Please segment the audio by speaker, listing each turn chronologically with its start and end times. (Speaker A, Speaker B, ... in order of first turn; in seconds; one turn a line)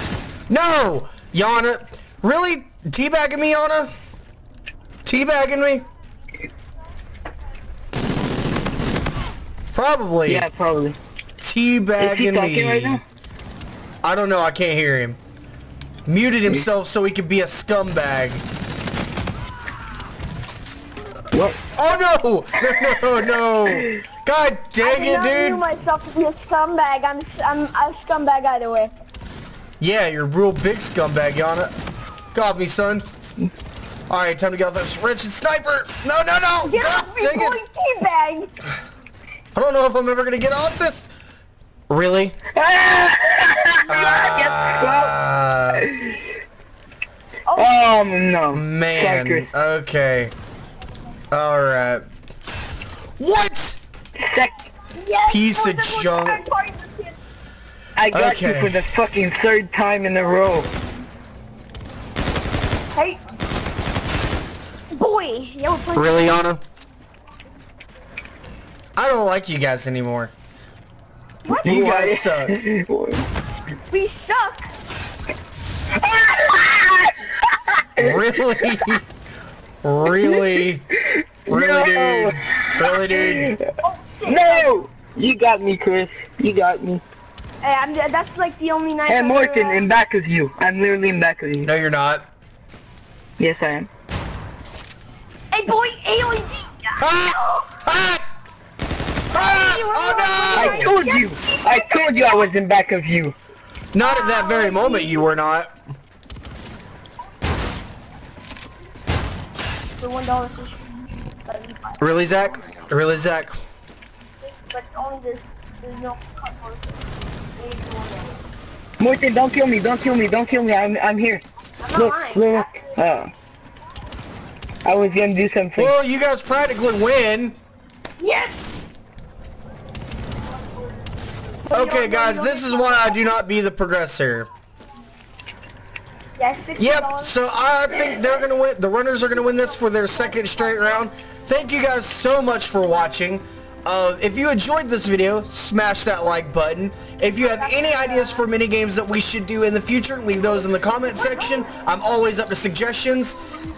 Speaker A: 0.5-3.9
Speaker A: 5.0-5.8
Speaker A: 9.7-10.5
Speaker B: 10.2-11.0
Speaker A: 11.4-13.0
Speaker B: 12.0-13.0
Speaker A: 14.0-15.2
Speaker A: 16.1-18.4
Speaker B: 21.3-21.6
Speaker A: 21.8-25.6
Speaker B: 22.7-23.0
Speaker C: 24.8-28.9
Speaker A: 29.8-31.7
Speaker A: 32.3-33.1
Speaker A: 34.1-37.6
Speaker C: 36.6-38.5
Speaker A: 39.5-41.1
Speaker A: 41.9-42.4
Speaker B: 42.5-45.1
Speaker A: 43.9-45.9
Speaker B: 45.7-46.2
Speaker C: 47.5-47.9
Speaker B: 47.5-49.5
Speaker A: 48.5-50.3
Speaker A: 51.3-52.0
Speaker A: 53.2-53.8
Speaker B: 54.2-54.5
Speaker C: 55.0-57.1
Speaker A: 55.3-56.4
Speaker B: 58.0-60.7
Speaker A: 58.1-58.7
Speaker C: 62.9-63.2
Speaker C: 64.9-66.3
Speaker A: 65.9-66.6
Speaker A: 69.0-70.3
Speaker B: 71.5-73.2
Speaker A: 71.6-72.6
Speaker C: 73.9-74.7
Speaker B: 76.0-78.9
Speaker A: 78.0-79.0
Speaker A: 79.8-80.8
Speaker B: 80.1-83.6
Speaker A: 81.5-83.5
Speaker C: 83.8-84.8
Speaker B: 84.2-87.0
Speaker C: 87.6-89.8
Speaker B: 89.1-91.7
Speaker A: 91.6-92.3
Speaker B: 93.4-93.9
Speaker C: 95.5-97.7
Speaker A: 97.0-98.2
Speaker C: 99.3-102.5
Speaker A: 99.3-100.9
Speaker B: 100.5-103.3
Speaker A: 103.9-105.7
Speaker C: 104.0-105.3
Speaker C: 109.9-112.0
Speaker A: 112.0-113.6
Speaker C: 114.4-118.5
Speaker B: 119.0-121.4
Speaker C: 121.8-122.9
Speaker B: 121.9-123.3
Speaker B: 124.8-125.9
Speaker A: 125.8-127.6
Speaker C: 128.2-128.7
Speaker C: 131.7-133.4
Speaker A: 131.7-134.5
Speaker C: 136.4-137.4
Speaker A: 136.8-153.4
Speaker C: 139.8-141.0
Speaker C: 147.3-148.4